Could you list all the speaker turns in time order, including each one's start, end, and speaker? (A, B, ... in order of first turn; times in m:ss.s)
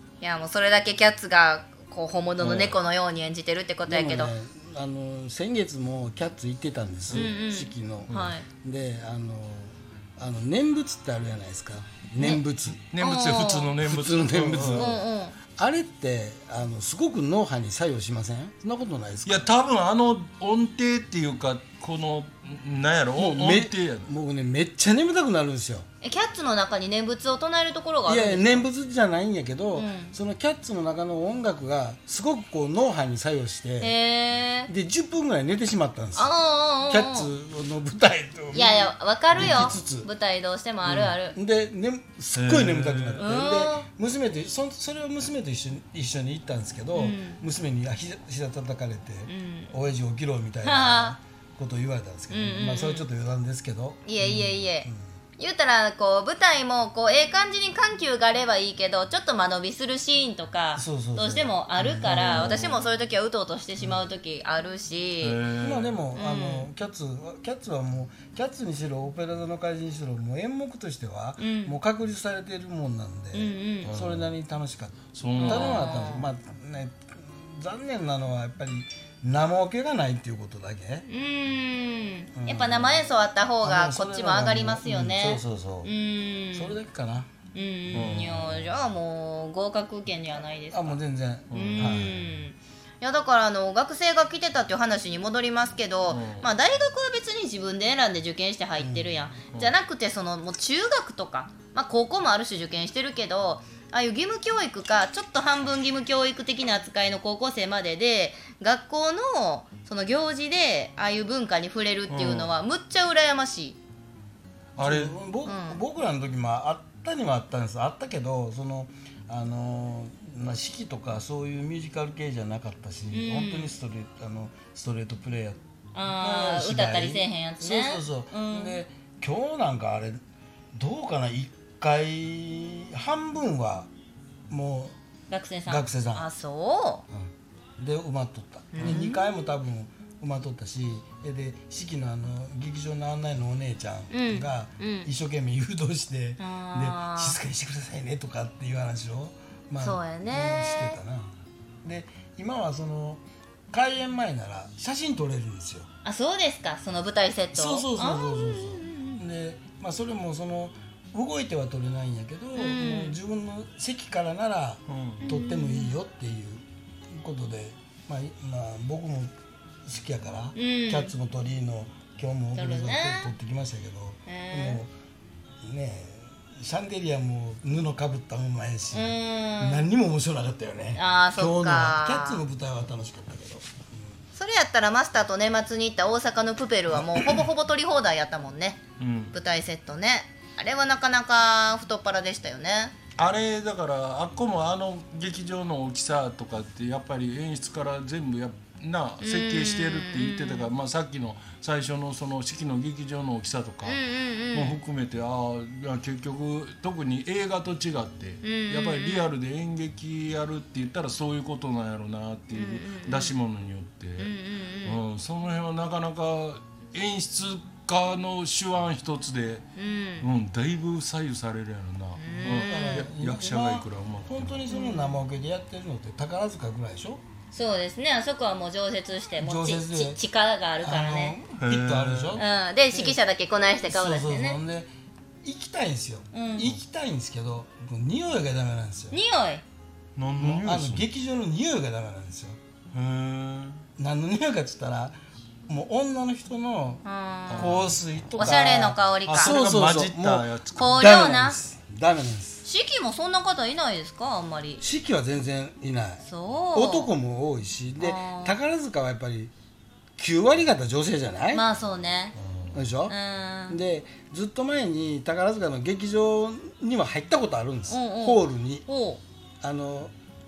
0:00.2-0:04.3 A
0:02.4-0:02.8 B
0:03.9-0:12.8 C
0:07.1-0:08.5 A
0:08.1-0:08.4 B
0:12.2-0:12.4 A
0:12.7-0:15.0 B
0:13.0-0:13.7 A
0:13.8-0:15.0 C
0:14.7-0:15.4 A
0:15.6-0:19.5 C
0:19.2-0:24.1 B
0:23.2-0:25.9 C
0:26.0-0:28.6 A
0:28.1-0:34.0 C
0:29.7-0:30.2 A
0:33.8-0:34.7 A
0:34.7-0:36.3 C
0:36.2-0:37.3 A
0:36.9-0:40.1 C
0:38.5-0:41.4 A
0:40.8-0:55.0 C
0:42.3-0:43.2 B
0:43.2-0:43.9 A
0:46.9-0:47.4 A
0:49.3-0:49.8 A
0:50.6-0:51.2 A
0:52.3-0:53.1 A
0:54.1-1:05.4 A
1:00.8-1:02.6 C
1:02.0-1:02.8 B
1:03.8-1:04.1 C
1:05.2-1:06.0 B
1:05.6-1:21.1 C
1:06.1-1:06.7 A
1:11.4-1:11.8 A
1:13.3-1:13.9 A
1:13.8-1:14.3 B
1:15.1-1:15.9 B
1:15.4-1:16.3 A
1:21.1-1:26.8 A
1:22.4-1:23.0 C
1:23.6-1:25.9 C
1:26.5-1:27.3 C
1:27.5-1:31.0 A
1:27.9-1:28.8 B
1:27.9-1:28.3 C
1:30.7-1:32.3 C
1:31.5-1:32.0 B
1:31.5-1:53.8 A
1:36.1-1:36.5 B
1:38.8-1:39.3 C
1:52.1-1:52.5 B
1:54.8-1:55.2 B
1:54.8-2:10.2 C
1:55.4-1:55.8 A
2:03.1-2:03.8 A
2:05.9-2:08.8 A
2:10.7-2:13.9 C
2:14.5-2:15.0 C
2:15.3-2:17.0 A
2:15.7-2:16.3 C
2:17.1-2:31.3 C
2:18.7-2:19.2 A
2:24.1-2:25.1 A
2:26.4-2:27.4 A
2:29.8-2:31.0 A
2:31.8-2:35.9 C
2:36.0-2:39.2 A
2:37.5-2:49.3 C
2:42.6-2:43.2 A
2:44.9-2:45.2 B
2:45.2-2:46.0 A
2:49.8-2:54.9 C
2:50.6-2:51.1 A
2:52.6-2:53.3 A
2:54.3-2:54.8 A
2:55.6-3:04.2 C
2:58.9-2:59.9 A
3:01.0-3:02.4 A
3:04.3-3:08.8 A
3:09.0-3:09.3 B
3:09.3-3:12.9 A
3:13.2-3:24.0 B
3:19.2-3:20.7 A
3:23.8-3:24.8 A
3:24.5-3:34.3 B
3:28.4-3:29.3 A
3:32.5-3:33.4 A
3:34.2-3:35.0 A
3:34.8-3:39.6 B
3:39.8-3:40.3 A
3:40.2-3:44.6 B
3:42.2-3:43.1 A
3:42.4-3:47.2 C
3:44.7-3:45.2 A
3:47.5-3:51.4 A
3:49.4-3:50.2 C
3:50.8-3:53.2 C
3:51.6-3:52.4 B
3:52.4-3:54.6 A
3:53.9-3:54.9 C
3:55.4-3:59.2 C
3:56.3-3:56.8 A
3:59.1-3:59.6 A
4:00.2-4:01.1 B
4:00.4-4:02.6 C
4:02.9-4:03.8 B
4:04.0-4:05.2 C
4:05.7-4:07.0 C
4:07.0-4:07.8 A
4:07.5-4:08.0 B
4:07.6-4:12.6 C
4:08.4-4:09.6 A
4:09.3-4:10.9 B
4:10.8-4:11.6 A
4:12.6-4:14.8 A
4:14.8-4:19.5 C
4:16.2-4:17.1 A
4:18.0-4:18.6 A
4:20.2-4:21.7 C
4:21.5-4:22.4 A
4:22.4-4:22.8 B
4:22.7-4:23.2 C
4:23.1-4:23.8 A
4:23.7-4:28.9 C
4:27.9-4:29.2 A
4:29.6-4:30.1 C